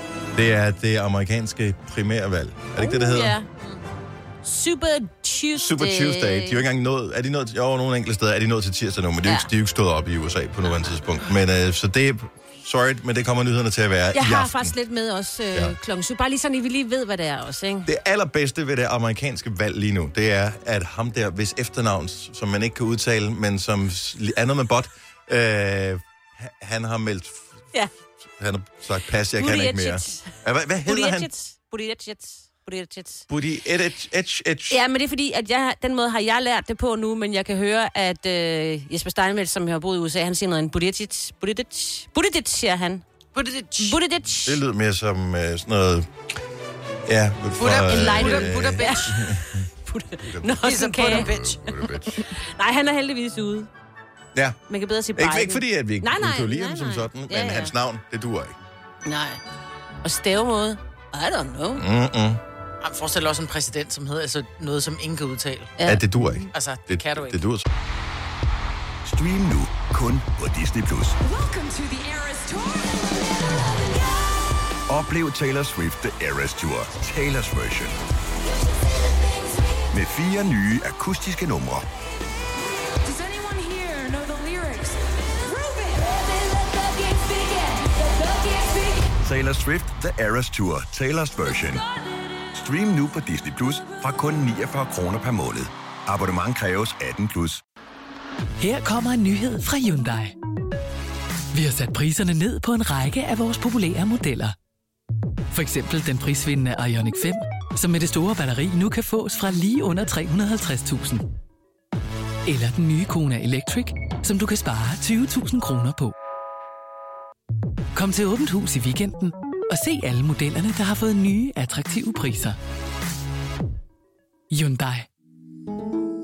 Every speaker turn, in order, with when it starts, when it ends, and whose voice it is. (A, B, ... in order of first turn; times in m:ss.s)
0:00.3-0:03.4 A
0:02.8-0:03.5 B
0:04.4-0:06.6 B
0:05.6-0:14.8 A
0:14.1-0:17.9 B
0:17.8-0:27.5 A
0:28.4-0:31.3 A
0:29.4-0:30.3 B
0:30.8-0:33.2 B
0:33.3-0:34.8 A
0:34.7-0:43.0 B
0:43.3-0:44.0 C
0:43.8-0:44.6 B
0:44.4-0:46.1 A
0:47.0-0:49.7 A
0:47.6-0:49.2 C
0:47.8-0:51.3 B
0:50.2-0:52.2 A
0:50.6-0:51.6 C
0:52.3-0:53.7 B
0:54.7-0:57.7 B
0:55.2-0:58.5 A
0:59.0-0:59.4 B
1:00.0-1:01.8 B
1:01.8-1:02.4 A
1:02.8-1:05.7 C
1:05.8-1:06.4 B
1:05.8-1:07.7 A
1:06.5-1:07.4 C
1:09.0-1:11.1 D
1:11.2-1:14.5 E
1:14.9-1:17.9 D
1:19.9-1:21.8 D
1:22.9-1:29.1 E
1:29.2-1:31.8 D
1:31.5-1:31.8 E
1:32.5-1:37.6 D
1:38.6-1:40.3 F
1:41.5-1:44.5 F
1:45.5-1:51.2 F
1:52.4-1:56.1 F
1:57.9-2:02.6 F
2:04.5-2:05.0 F